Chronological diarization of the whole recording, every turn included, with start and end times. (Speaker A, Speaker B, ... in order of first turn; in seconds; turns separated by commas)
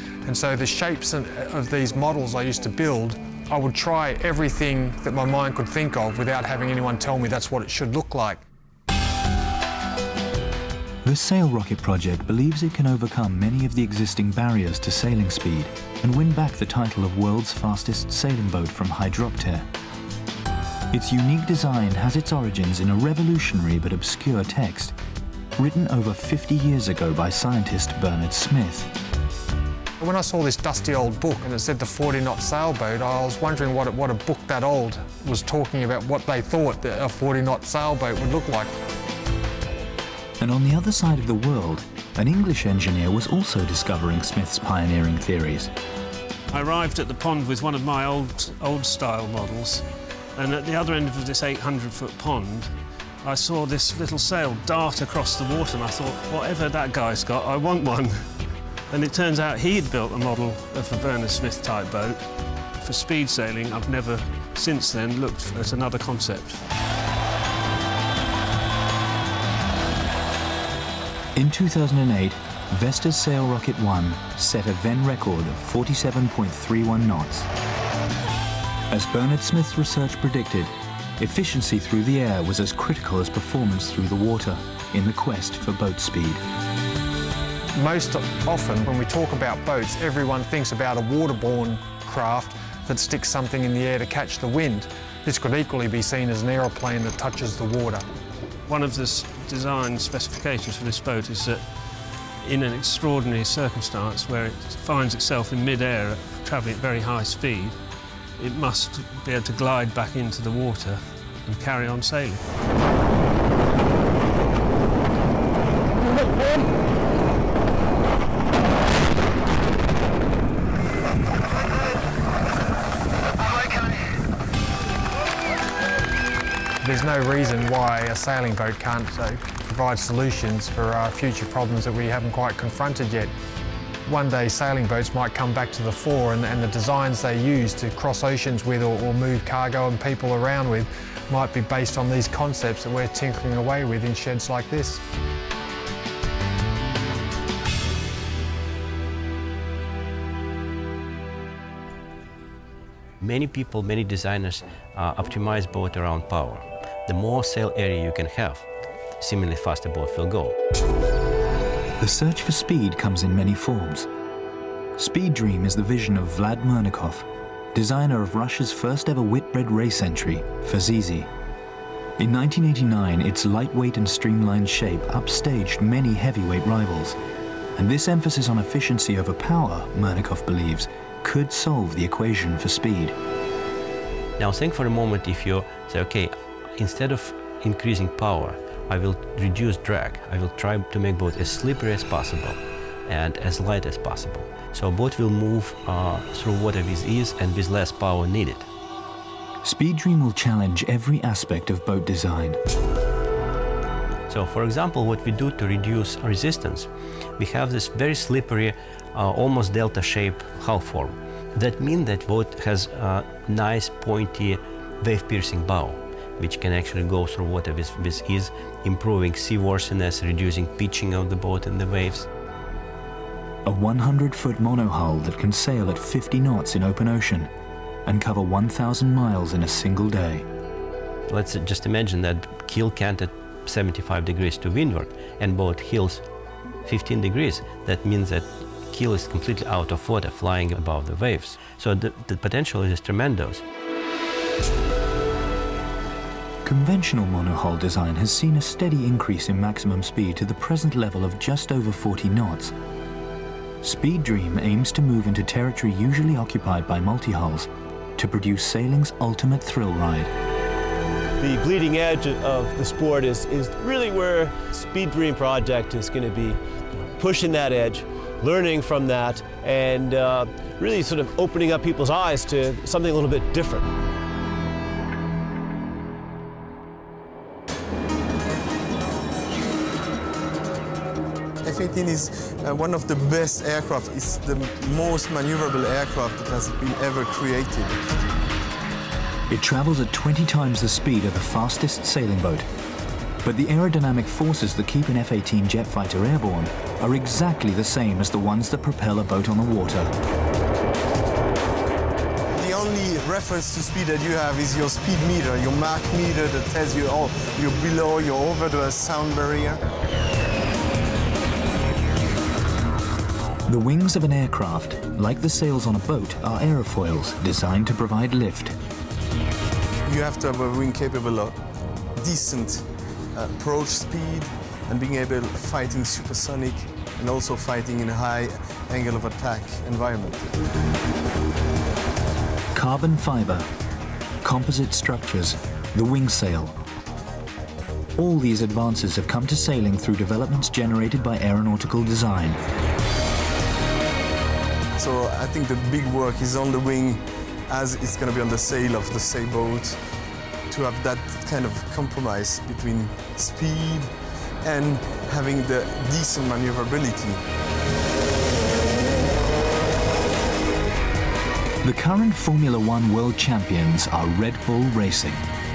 Speaker A: 0.2-8.4, Speaker B: 11.0-19.7, Speaker B: 20.9-24.9, Speaker B: 25.6-28.9, Speaker A: 30.0-38.7, Speaker B: 40.4-45.7, Speaker C: 46.5-58.2, Speaker C: 58.9-62.2, Speaker C: 62.8-66.6, Speaker B: 71.4-77.5, Speaker B: 78.9-86.4, Speaker A: 87.8-98.0, Speaker C: 98.7-101.8, Speaker C: 102.4-107.8, Speaker C: 108.4-112.4, Speaker A: 126.8-133.3, Speaker A: 134.1-145.0, Speaker D: 153.2-158.7, Speaker D: 159.2-160.5, Speaker B: 162.0-164.1, Speaker B: 165.0-171.3, Speaker B: 172.2-177.2, Speaker B: 177.8-183.2, Speaker D: 184.4-198.7, Speaker B: 199.6-202.6, Speaker D: 204.3-222.3, Speaker B: 223.7-227.5, Speaker B: 228.1-230.5, Speaker D: 231.3-236.2, Speaker D: 236.8-243.6, Speaker B: 246.6-252.7, Speaker B: 253.8-260.3, Speaker E: 261.4-273.9, Speaker F: 281.6-288.0, Speaker B: 289.5-292.7, Speaker B: 293.4-300.1, Speaker F: 302.6-309.8, Speaker B: 313.7-318.8, Speaker F: 320.1-321.6, Speaker F: 322.2-330.6, Speaker B: 332.7-333.7, Speaker B: 334.4-336.8, Speaker B: 338.2-342.6, Speaker F: 345.0-350.0, Speaker F: 350.7-357.4, Speaker B: 361.8-365.4